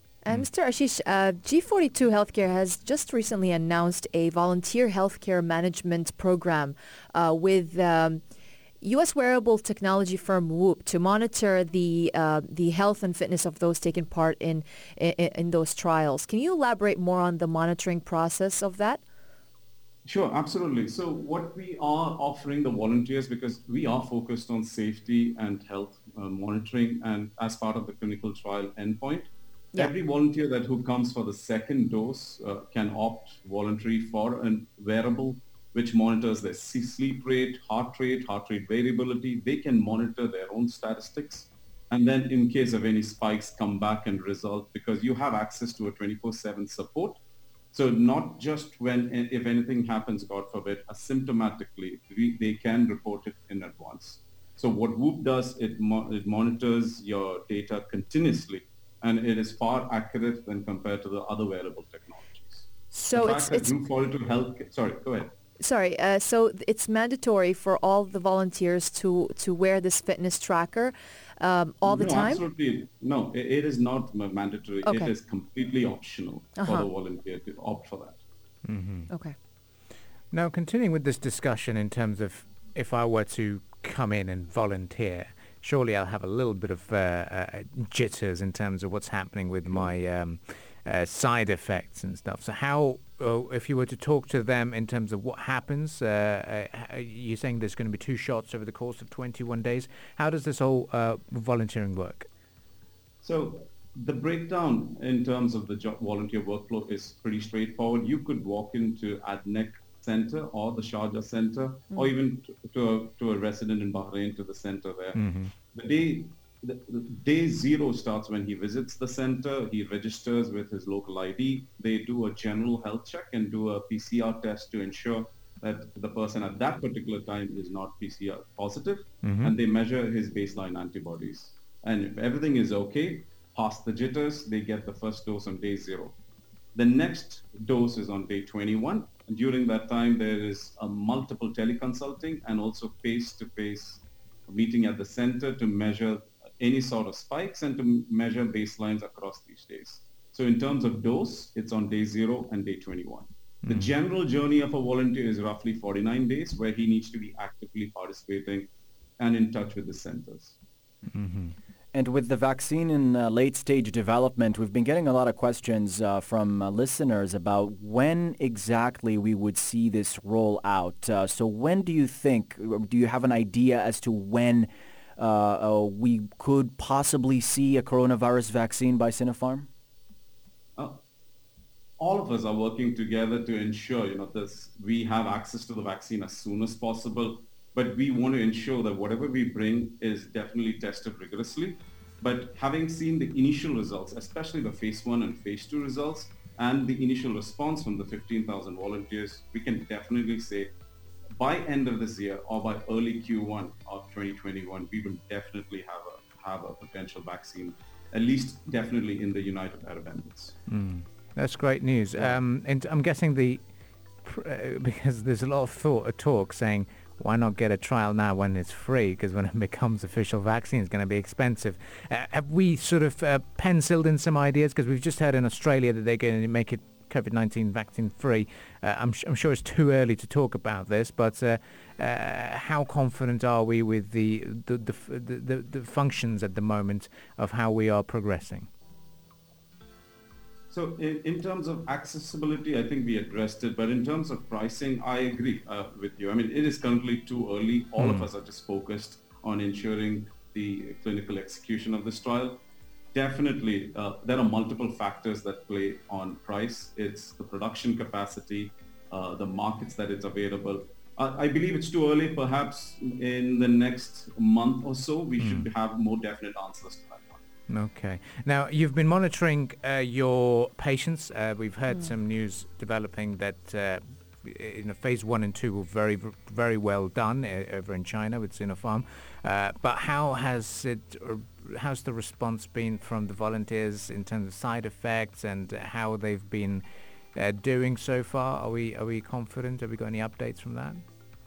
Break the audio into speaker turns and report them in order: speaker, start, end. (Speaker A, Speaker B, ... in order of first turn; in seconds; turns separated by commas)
Speaker A: 0.2-8.2, Speaker A: 8.8-19.0, Speaker B: 20.1-47.2, Speaker B: 47.7-65.3, Speaker A: 62.9-63.7, Speaker A: 65.6-72.4, Speaker B: 71.8-78.2, Speaker A: 74.8-75.1, Speaker A: 76.6-76.9, Speaker C: 78.7-79.1, Speaker C: 80.3-102.3, Speaker B: 103.2-115.2, Speaker C: 115.2-115.5, Speaker B: 115.7-136.2, Speaker C: 129.2-129.5, Speaker B: 136.8-160.6, Speaker C: 161.1-161.6, Speaker D: 161.9-179.7, Speaker B: 180.8-181.0, Speaker B: 182.0-200.7, Speaker B: 201.4-210.6, Speaker C: 210.7-213.6, Speaker C: 214.2-238.7, Speaker B: 240.7-267.4, Speaker C: 248.0-248.3, Speaker C: 265.4-265.7, Speaker C: 267.7-286.8, Speaker C: 287.4-291.0